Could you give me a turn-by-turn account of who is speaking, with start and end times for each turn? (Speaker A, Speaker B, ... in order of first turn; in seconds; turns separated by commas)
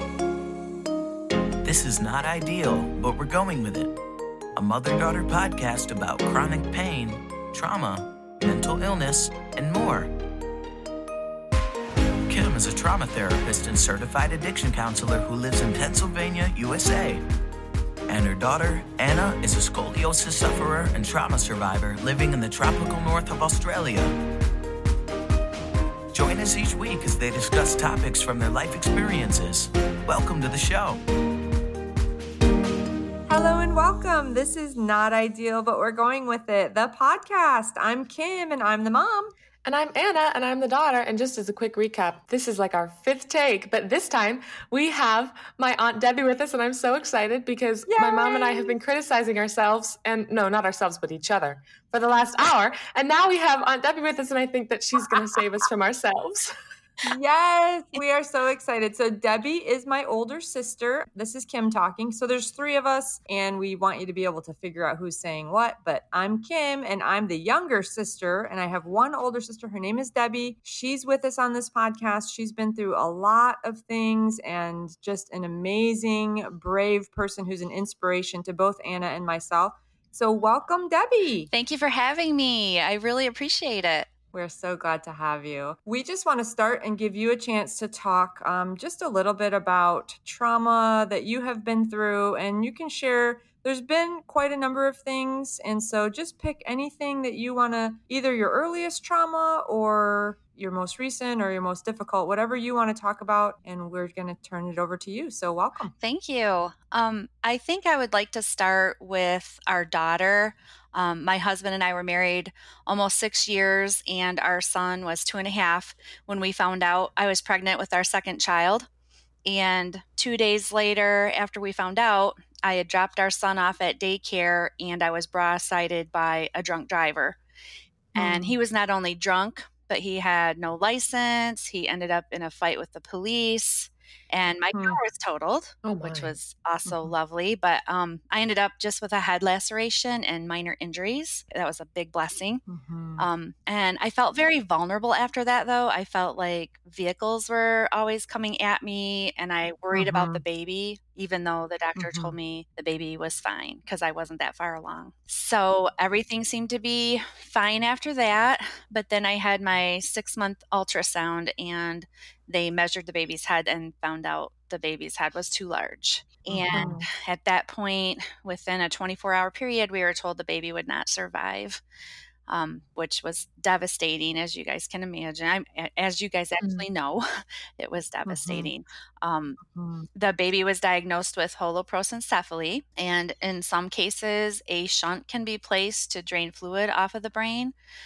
Speaker A: 1.6-3.9, Speaker A: 4.5-10.1, Speaker A: 12.3-17.2, Speaker A: 18.1-24.2, Speaker A: 26.1-31.0, Speaker B: 33.3-39.3, Speaker C: 39.6-56.5, Speaker B: 47.9-48.8, Speaker B: 57.0-81.5, Speaker D: 81.5-84.1, Speaker B: 84.3-105.9, Speaker D: 106.0-118.9, Speaker D: 119.5-127.4, Speaker D: 128.2-142.6, Speaker B: 134.7-135.0, Speaker C: 135.8-136.3, Speaker B: 136.9-137.1, Speaker B: 142.7-143.2, Speaker D: 143.2-171.8, Speaker B: 149.9-150.4, Speaker B: 152.0-152.3, Speaker C: 166.5-167.0, Speaker B: 166.7-167.1, Speaker D: 172.5-179.6, Speaker C: 176.6-176.8, Speaker B: 178.2-178.7, Speaker B: 179.6-180.1, Speaker D: 180.1-187.7